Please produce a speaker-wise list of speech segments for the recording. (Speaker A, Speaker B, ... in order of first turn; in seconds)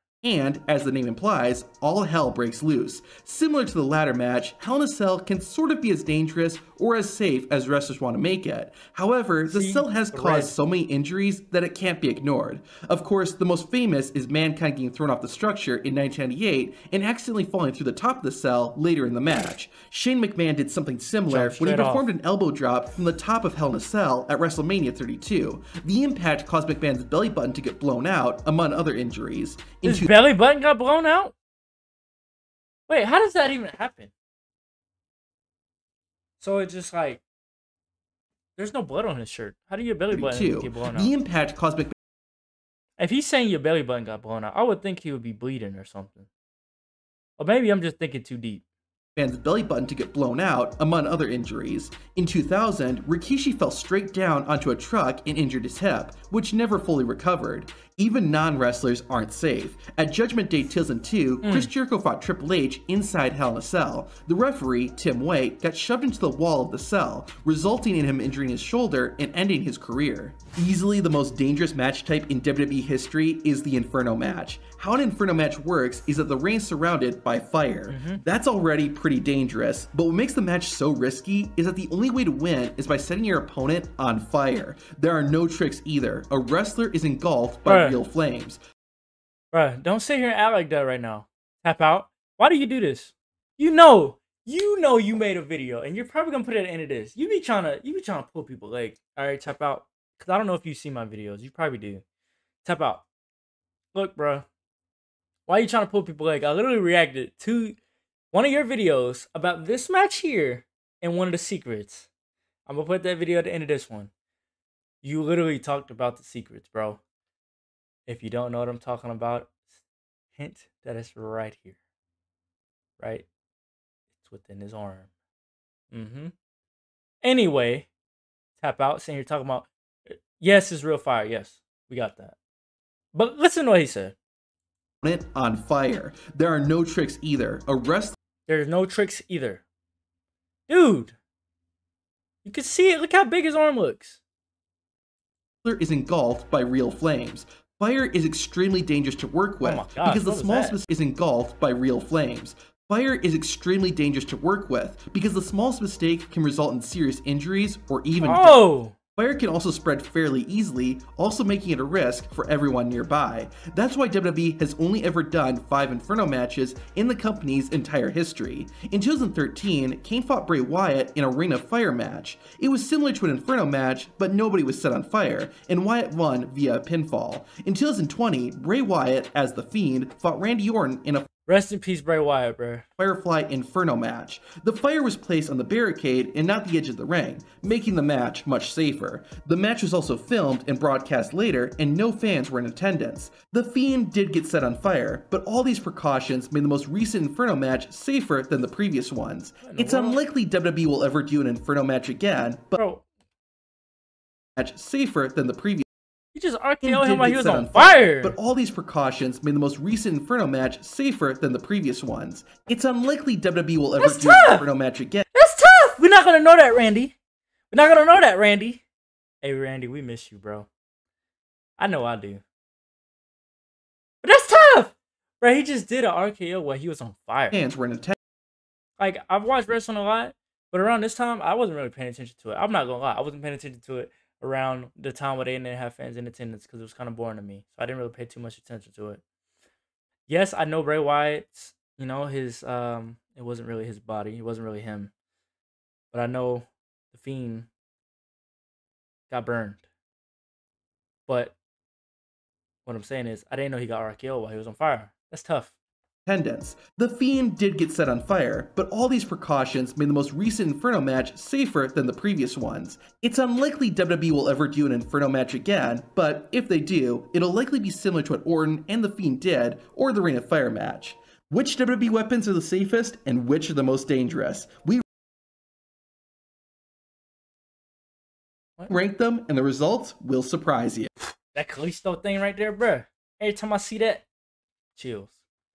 Speaker A: 0.2-30.1, 40.1-41.9, 49.2-88.6, 135.0-138.2, 145.6-158.6, 159.2-181.3, 183.0-202.8, 204.6-205.8, 206.8-215.3, 227.5-228.2, 256.3-275.0, 278.9-281.1
Speaker B: 9.5-10.5, 21.3-22.1, 29.9-31.3, 32.9-34.1, 36.4-37.2, 38.6-41.1, 43.0-46.3, 47.4-48.6, 61.4-61.7, 77.9-78.2, 87.7-88.0, 89.5-102.0, 102.6-103.1, 103.9-104.5, 105.5-107.8, 108.3-112.1, 112.7-114.1, 115.0-117.0, 118.1-119.5, 120.4-121.8, 123.0-123.3, 124.2-125.1, 125.9-126.3, 127.2-127.9, 128.6-132.4, 133.1-134.2, 138.5-139.6, 140.7-141.2, 142.4-144.2, 149.6-150.8, 158.2-158.9, 181.5-182.8, 199.6-200.2, 202.8-203.1, 206.3-208.4, 214.0-214.7, 215.3-217.2, 217.7-218.8, 219.4-220.7, 221.8-222.4, 224.2-227.6, 229.0-239.2, 240.3-245.1, 246.1-247.7, 249.3-249.8, 251.3-251.6, 252.9-255.7, 281.5-284.3, 284.9-285.3